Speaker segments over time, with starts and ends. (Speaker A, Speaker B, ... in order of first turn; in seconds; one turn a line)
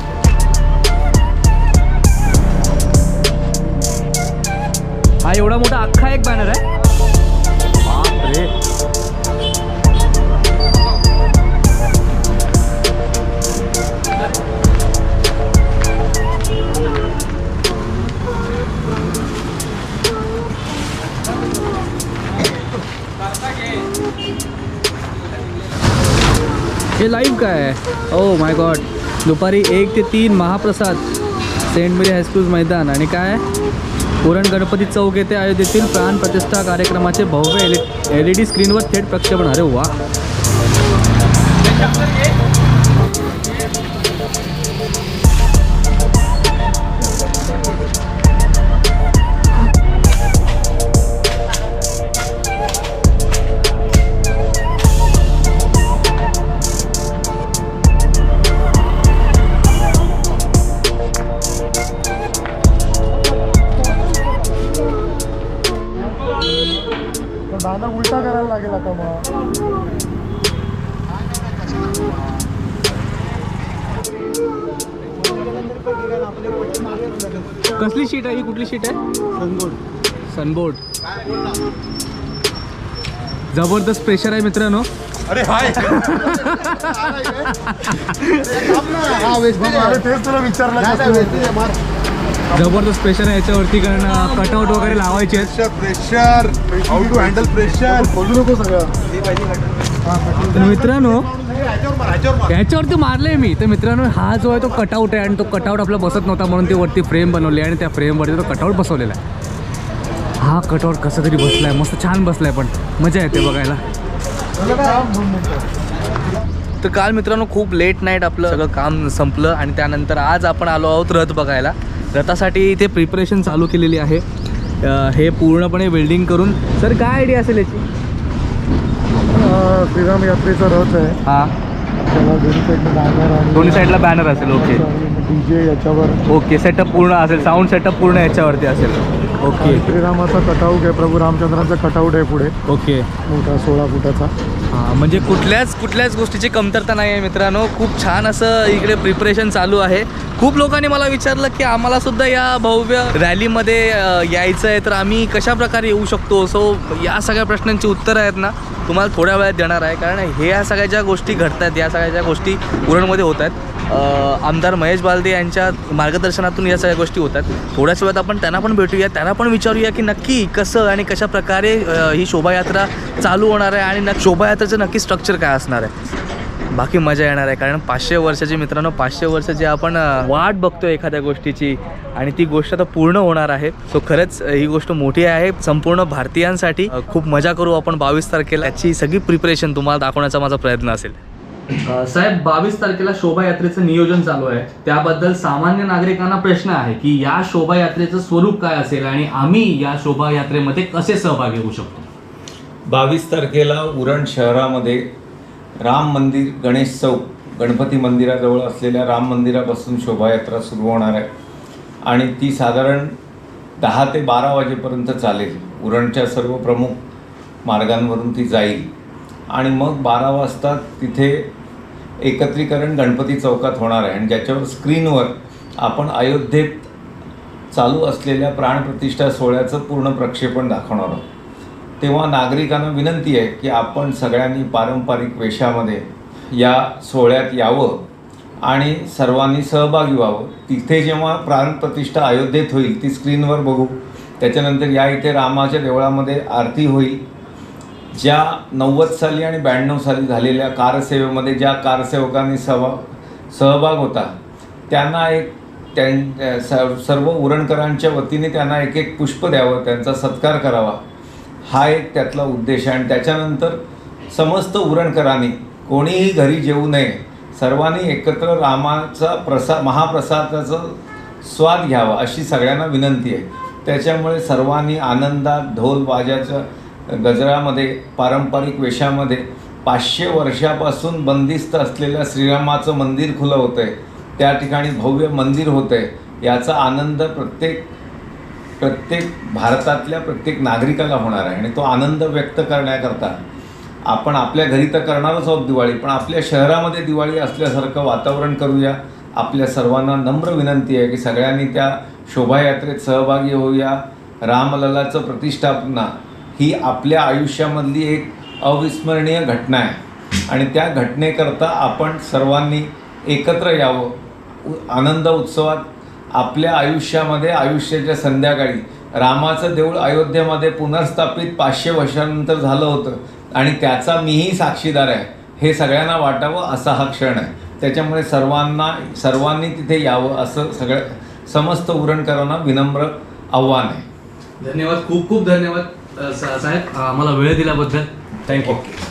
Speaker A: 5.2-6.6
Speaker A: 7.8-8.5
Speaker A: 27.0-31.0
Speaker A: 31.7-33.4
Speaker A: 34.2-40.0
Speaker B: 67.5-69.3
Speaker A: 77.7-79.0
Speaker A: 80.3-80.8
Speaker A: 83.5-84.9
Speaker A: 85.5-89.0
Speaker B: 89.0-91.7
Speaker A: 92.5-95.6
Speaker B: 96.2-98.9
Speaker B: 100.1-100.5
Speaker A: 100.5-101.3
Speaker A: 102.5-109.2
Speaker A: 110.4-113.8
Speaker B: 114.6-115.7
Speaker A: 116.8-124.2
Speaker A: 124.8-127.9
Speaker B: 129.3-131.2
Speaker A: 131.2-131.5
Speaker B: 132.0-136.2
Speaker A: 133.6-134.9
Speaker A: 136.3-139.8
Speaker B: 139.6-142.6
Speaker A: 142.7-143.1
Speaker B: 143.3-144.3
Speaker A: 144.7-175.9
Speaker A: 176.7-191.2
Speaker A: 191.8-202.1
Speaker C: 202.9-205.1
Speaker C: 205.8-211.3
Speaker C: 212.1-213.1
Speaker C: 213.8-217.0
Speaker C: 217.7-218.9
Speaker C: 219.5-221.5
Speaker C: 222.2-226.9
Speaker C: 227.7-231.3
Speaker C: 232.0-238.1
Speaker C: 238.6-247.2
Speaker C: 248.1-254.3
Speaker C: 254.9-261.0
Speaker C: 261.7-263.8
Speaker C: 264.3-287.9
Speaker C: 288.8-293.4
Speaker C: 294.1-310.0
Speaker C: 310.5-334.1
Speaker A: 334.6-338.9